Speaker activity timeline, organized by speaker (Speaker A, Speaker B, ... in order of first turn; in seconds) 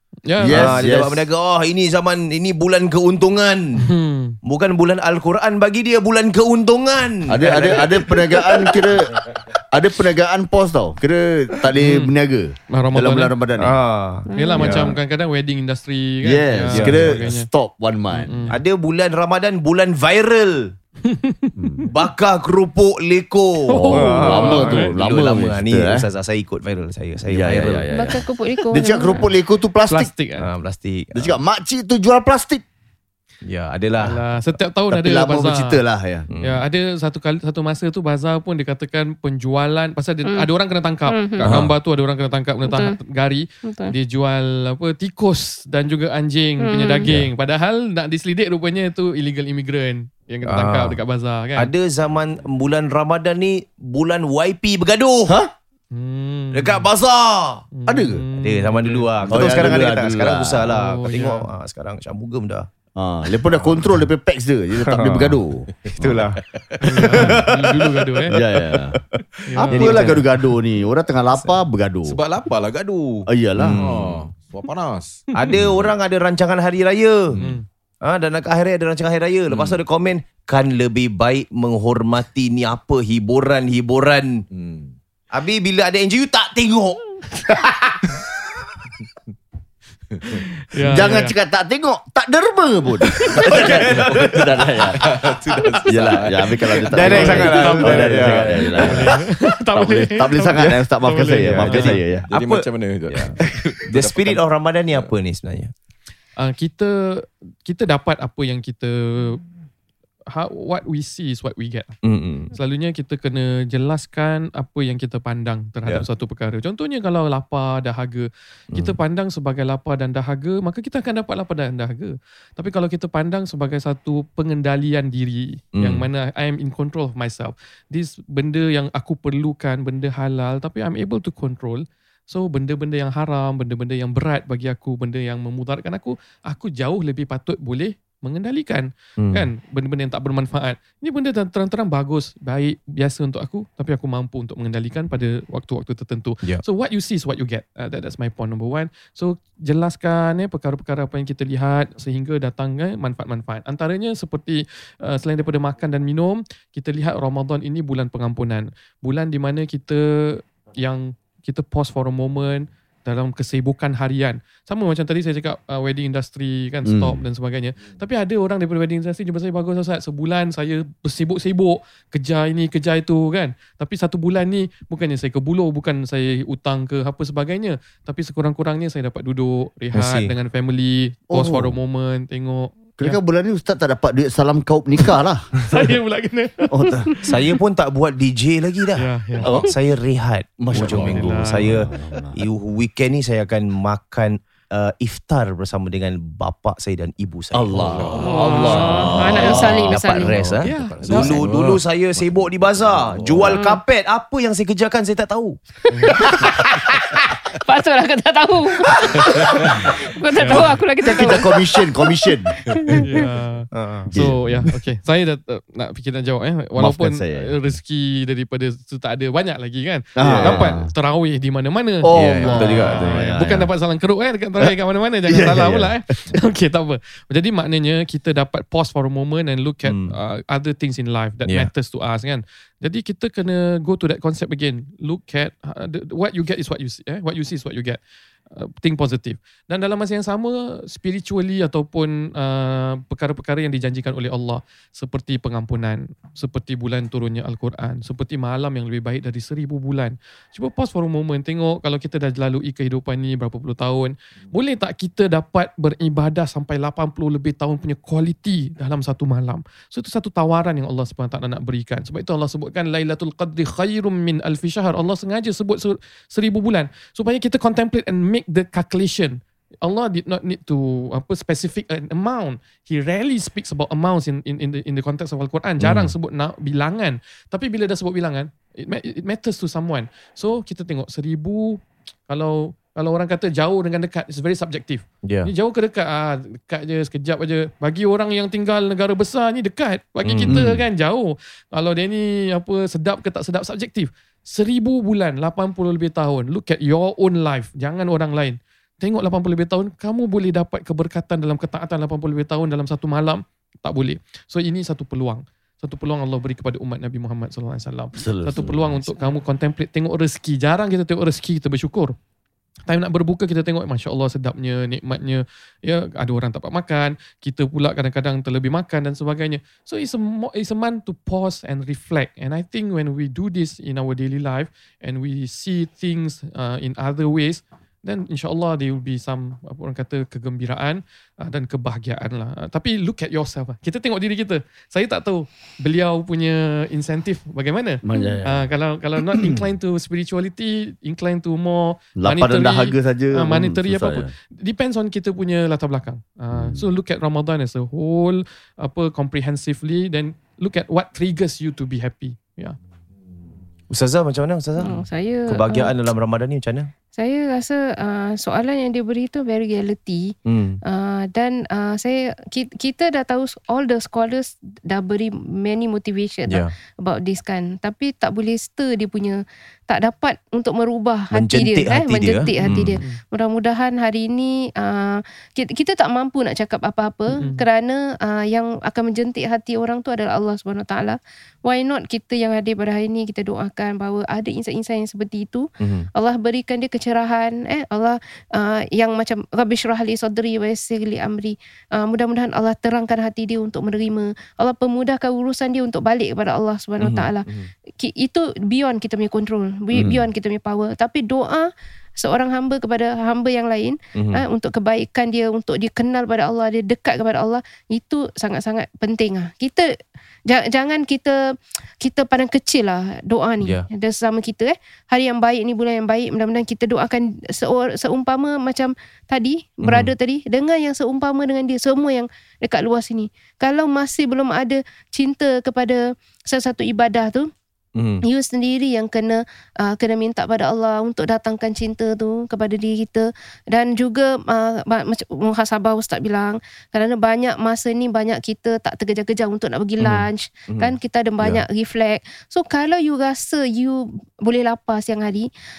Speaker A: 0.3-0.8, 3.8-4.4, 11.8-12.1, 12.7-13.3, 14.3-17.5, 18.1-18.6, 21.0-21.9, 23.7-24.9, 29.9-30.5, 34.0-35.8, 36.4-51.7, 55.9-56.9, 57.7-59.7, 60.7-61.5, 66.8-68.4, 69.5-70.2, 77.4-77.6, 90.6-91.3, 97.0-102.0, 106.4-109.4, 110.3-112.0, 112.5-183.2, 185.7-187.3, 189.0-189.7, 190.7-191.8, 198.2-199.1, 200.6-201.4, 205.9-206.3, 210.4-210.8, 212.9-238.0, 238.5-312.1, 312.9-352.8, 372.4-373.2, 377.3-377.6
Speaker B: 0.4-1.3, 7.3-13.8, 16.2-18.4, 21.6-21.9, 23.9-26.0, 27.3-30.1, 31.1-32.6, 34.9-36.3, 55.2-55.5, 57.9-58.2, 59.2-60.7, 63.0-66.1, 67.1-67.5, 68.3-69.0, 69.7-72.2, 73.3-73.9, 90.9-95.0, 95.8-99.2, 99.7-102.3, 166.8-167.2, 181.3-181.8, 183.0-185.5, 186.7-187.1, 189.4-189.7, 190.6-192.4, 197.5-200.5, 203.2-203.5, 210.5-212.7, 214.1-214.7, 216.8-217.6, 220.2-220.9, 222.0-223.7, 225.3-225.9, 308.1-309.1, 338.0-338.7, 339.2-339.6, 342.2-344.3, 346.5-346.9, 399.9-400.3
Speaker C: 0.5-3.9, 4.4-8.9, 13.6-15.0, 16.7-17.3, 18.5-20.7, 21.9-28.1, 30.4-31.4, 33.5-34.2, 36.3-36.6, 41.4-41.7, 50.4-51.0, 51.5-55.4, 56.5-57.6, 58.4-62.7, 63.5-63.9, 64.8-65.4, 66.0-70.3, 73.6-74.2, 75.3-77.4, 78.0-84.4, 85.3-88.2, 93.3-94.9, 96.9-99.1, 100.5-100.8, 101.4-105.7, 112.0-112.5, 125.7-126.1, 139.2-139.5, 179.9-180.3, 187.3-205.6, 206.2-206.5, 209.0-209.7, 213.7-214.1, 220.2-220.7, 222.1-223.2, 229.8-230.1, 275.8-276.1, 285.2-285.5, 290.2-290.8, 353.9-356.9, 360.4-360.8, 371.3-373.0, 385.8-386.1, 397.0-397.7, 404.1-404.4, 413.6-413.9, 419.8-420.1, 427.9-428.2, 440.0-441.6
Speaker D: 14.3-14.8, 27.9-29.3, 41.1-41.5, 42.6-43.0, 43.6-43.9, 46.6-47.1, 198.2-200.5, 201.1-201.4, 203.5-203.8, 205.9-206.8, 207.5-213.2, 354.8-355.9, 357.1-409.9, 410.5-411.4, 412.0-427.5, 428.2-445.5
Speaker E: 65.8-66.8, 72.1-75.8, 77.3-77.6, 79.5-79.8, 84.5-84.9, 93.4-94.2, 95.0-98.9, 102.2-105.1